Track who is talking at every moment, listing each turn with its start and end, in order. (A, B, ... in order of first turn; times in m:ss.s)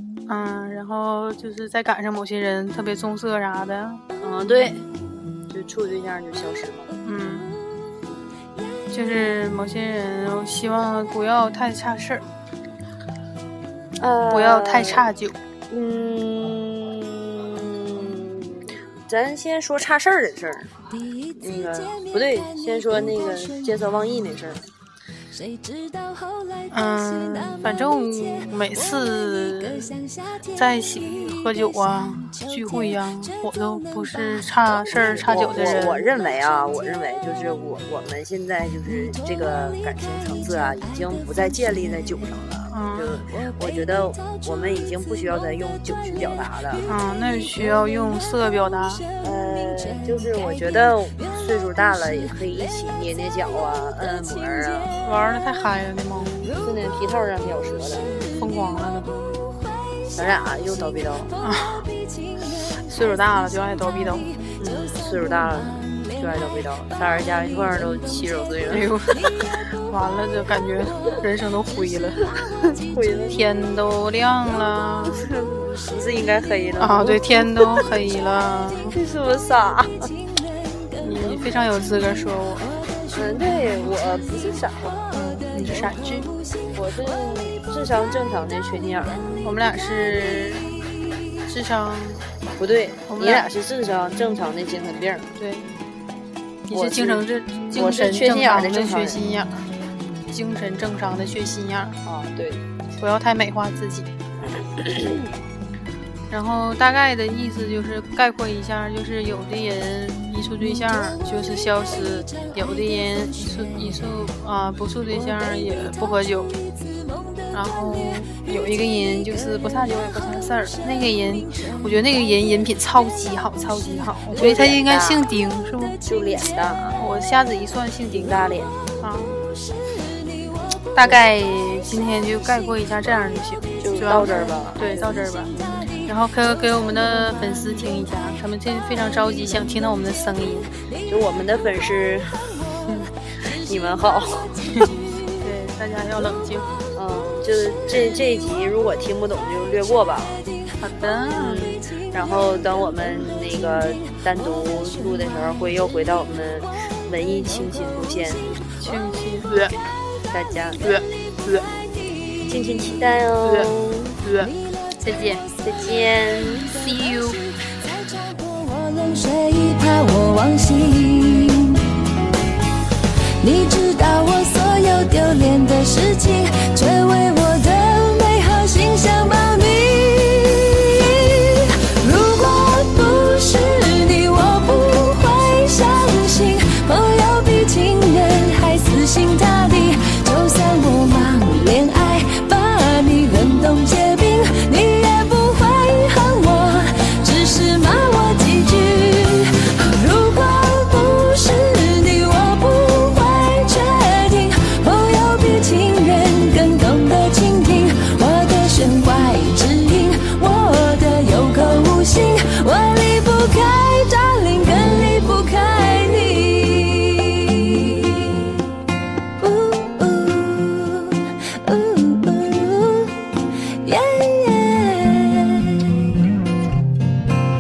0:00.3-0:04.0 A
0:04.2-0:04.9 B
0:05.5-0:06.9 B
0:07.0-0:07.5 A
0:08.9-0:12.2 A
0:14.0-0:15.1 B
0:14.3-0:15.4 A
0:15.7-0:20.8 B
0:21.3-0:24.7 B
0:26.7-0:30.0 A
0:30.5-0:36.1 A
0:34.9-0:46.9 B
0:42.7-0:43.2 A
0:46.9-0:49.0 A
0:49.2-0:55.0 B
0:55.0-0:56.5 A
0:56.6-0:58.1 B
0:58.3-0:59.2 A
1:00.1-1:01.3 B
1:01.4-1:01.9 A
1:02.8-1:04.4 A
1:04.6-1:08.9 B
1:08.7-1:12.3 A
1:12.8-1:13.4 B
1:13.3-1:15.2 A
1:15.1-1:17.9 B
1:16.8-1:19.0 A
1:18.9-1:20.1 B
1:21.0-1:22.7 A
1:23.1-1:25.0 B
1:25.1-1:26.3 A
1:26.7-1:29.4 B
1:29.4-1:30.7 A
1:31.5-1:32.2 A
1:32.6-1:35.4 B
1:33.1-1:33.5 A
1:35.4-1:35.7 A
1:36.7-1:39.7 A
1:36.7-1:39.2 B
1:40.3-1:42.0 A
1:42.0-1:42.6 B
1:43.0-1:44.1 A
1:44.8-1:45.2 B
1:46.3-1:56.5 A
1:57.5-2:06.0 A
2:04.4-2:05.3 B
2:06.0-2:07.0 B
2:07.0-2:08.4 A
2:08.1-2:08.8 B
2:09.0-2:09.4 A
2:11.0-2:15.5 A
2:13.8-2:15.8 B
2:16.0-2:20.7 A
2:21.1-2:22.6 B
2:23.5-2:24.8 B
2:25.4-2:26.8 A
2:26.9-2:30.5 B
2:30.8-2:31.8 A
2:31.4-2:38.6 B
2:38.8-2:39.7 A
2:40.3-2:40.8 B
2:40.8-2:41.7 A
2:42.4-2:44.2 B
2:43.4-2:43.7 A
2:44.2-2:45.4 A
2:45.6-2:46.8 B
2:46.7-2:47.5 A
2:49.2-2:51.7 C
2:53.4-3:37.7 C
3:39.8-3:40.6 C
3:41.3-3:42.9 C
3:43.9-3:45.3 C